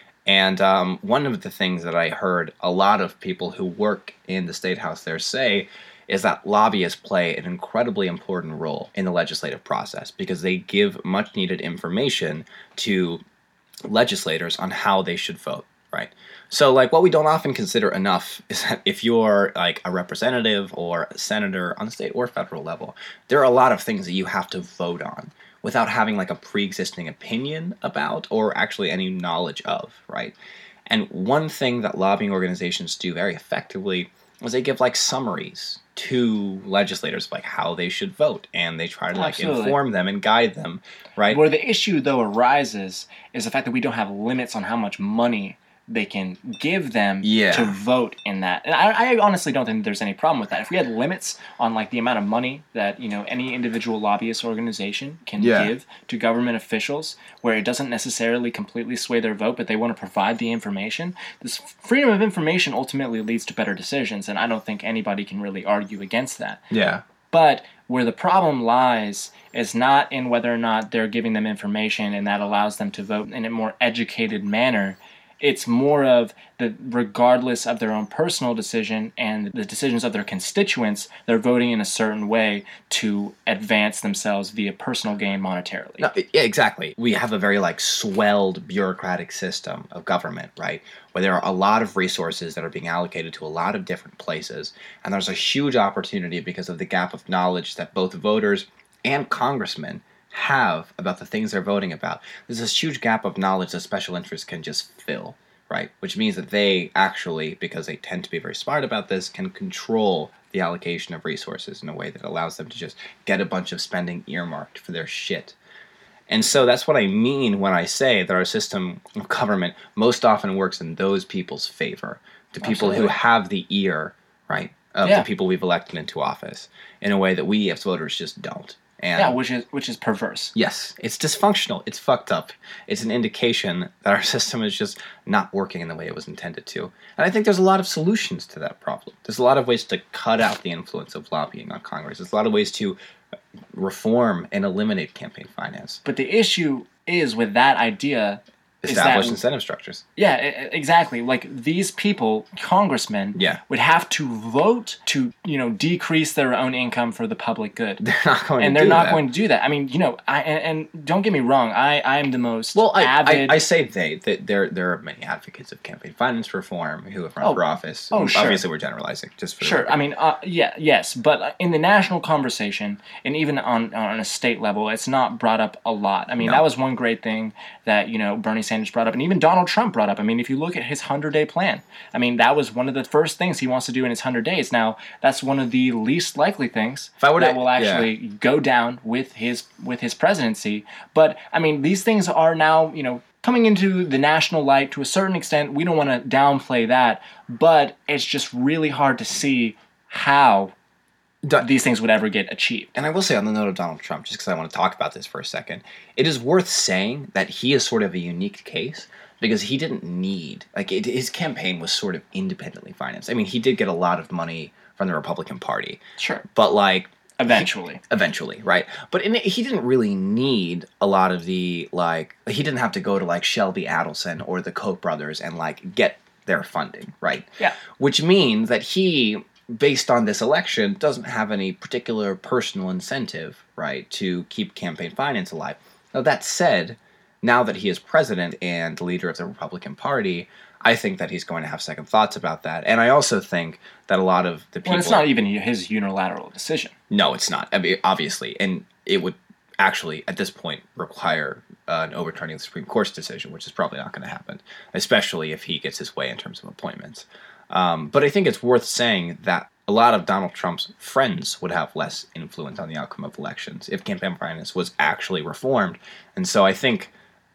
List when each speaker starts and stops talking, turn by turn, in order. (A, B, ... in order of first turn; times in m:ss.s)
0:00.2-0:13.2 A
0:13.9-0:30.4 A
0:30.9-0:41.4 A
0:39.1-0:39.8 B
0:41.3-1:06.6 B
0:47.2-0:47.8 A
0:55.4-0:55.7 A
1:06.7-1:07.0 A
1:07.3-1:26.1 B
1:26.0-1:55.6 A
1:56.3-2:09.4 A
2:02.6-2:03.2 B
2:09.1-2:10.5 B
2:10.5-2:23.0 A
2:23.7-2:26.0 A
2:26.0-2:29.4 B
2:28.8-2:30.0 A
2:30.2-2:38.0 B
2:33.3-2:33.6 A
2:38.0-2:39.2 A
2:38.6-2:43.6 B
2:42.7-2:50.0 A
2:47.4-2:48.6 B
2:49.6-3:20.7 B
3:07.2-3:08.1 A
3:21.4-3:21.7 A
3:21.6-3:22.9 B
3:22.9-4:05.3 A
3:36.2-3:36.4 B
3:37.4-3:38.0 B
4:04.8-4:06.9 B
4:07.1-4:27.1 A